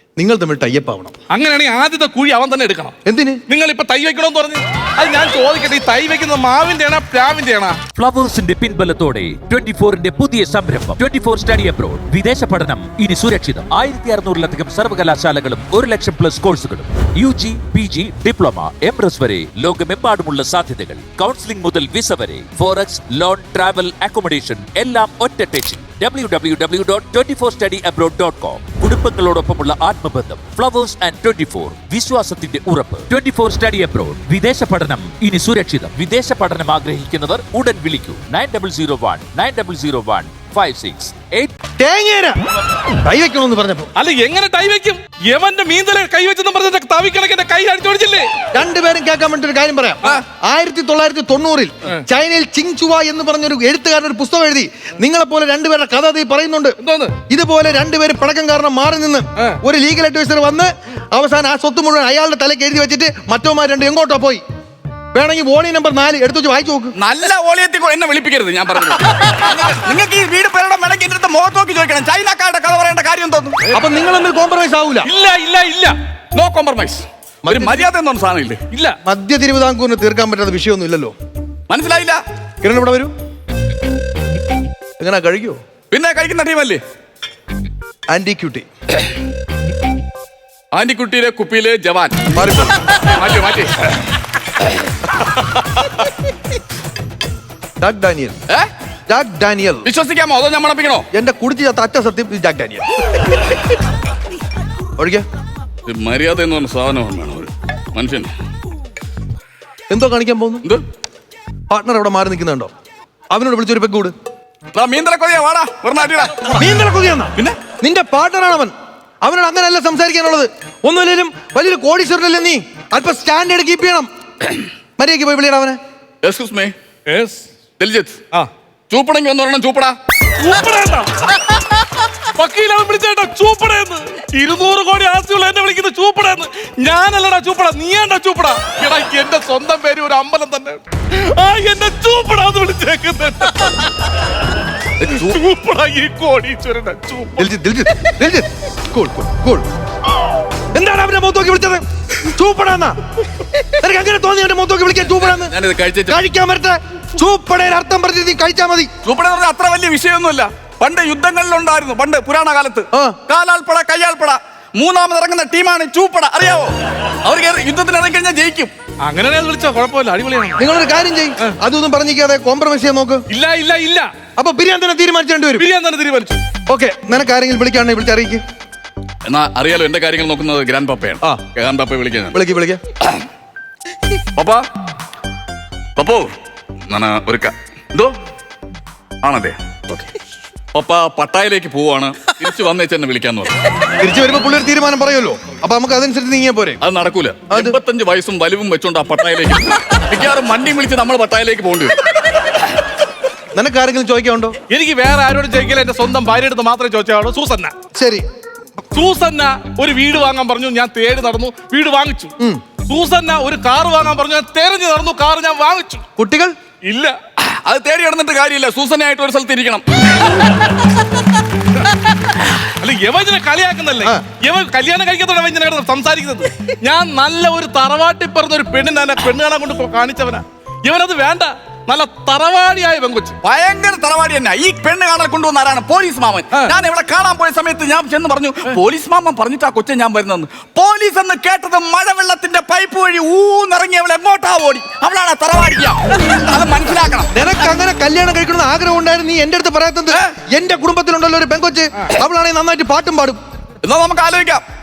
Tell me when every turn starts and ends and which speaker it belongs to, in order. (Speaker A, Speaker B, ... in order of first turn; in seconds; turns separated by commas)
Speaker A: 0.2-1.1, Speaker B: 1.3-3.0, Speaker A: 3.0-3.4, Speaker B: 3.5-7.8, Speaker C: 8.0-41.5, Speaker A: 41.8-42.4, Speaker A: 43.0-43.9, Speaker B: 44.0-48.3, Speaker A: 48.5-56.8, Speaker B: 56.8-57.1, Speaker A: 57.3-64.4, Speaker A: 65.1-66.9, Speaker D: 67.0-73.6, Speaker A: 73.7-75.1, Speaker B: 75.0-76.0, Speaker D: 76.3-78.6, Speaker A: 77.5-77.9, Speaker B: 78.7-79.0, Speaker A: 79.0-81.1, Speaker D: 81.7-82.2, Speaker A: 82.6-83.1, Speaker A: 85.0-85.6, Speaker D: 85.9-86.8, Speaker A: 88.1-88.7, Speaker D: 90.7-92.2, Speaker A: 92.3-92.8, Speaker D: 93.0-93.7, Speaker A: 97.8-98.3, Speaker A: 99.1-99.9, Speaker D: 99.8-101.1, Speaker A: 101.1-102.8, Speaker A: 105.0-105.2, Speaker D: 105.9-108.3, Speaker A: 109.9-110.7, Speaker A: 111.7-112.7, Speaker A: 113.3-114.1, Speaker D: 114.7-116.5, Speaker A: 116.5-124.1, Speaker A: 125.0-125.8, Speaker D: 126.2-126.7, Speaker B: 127.1-127.4, Speaker D: 127.8-128.2, Speaker D: 128.9-129.9, Speaker B: 130.4-143.9, Speaker B: 145.0-147.5, Speaker A: 147.4-149.7, Speaker A: 150.7-153.0, Speaker A: 153.7-155.5, Speaker D: 155.4-156.2, Speaker A: 156.1-158.9, Speaker D: 159.1-166.7, Speaker A: 162.9-163.2, Speaker D: 167.2-168.7, Speaker B: 169.0-170.7, Speaker A: 170.6-173.2, Speaker B: 173.3-174.1, Speaker A: 174.4-175.7, Speaker B: 175.6-176.4, Speaker A: 176.7-178.4, Speaker D: 179.3-182.4, Speaker A: 182.3-182.8, Speaker D: 184.4-184.6, Speaker D: 186.0-186.3, Speaker D: 186.9-188.1, Speaker D: 189.2-190.1, Speaker D: 190.7-193.5, Speaker A: 194.0-196.8, Speaker D: 196.8-202.0, Speaker A: 197.5-197.8, Speaker A: 203.5-204.6, Speaker B: 204.7-207.7, Speaker A: 207.9-208.2, Speaker B: 208.9-212.3, Speaker B: 212.9-216.0, Speaker A: 216.2-216.5, Speaker B: 216.9-217.2, Speaker D: 217.4-219.8, Speaker B: 222.8-233.4, Speaker D: 233.4-247.3, Speaker A: 247.3-253.4, Speaker D: 253.8-254.6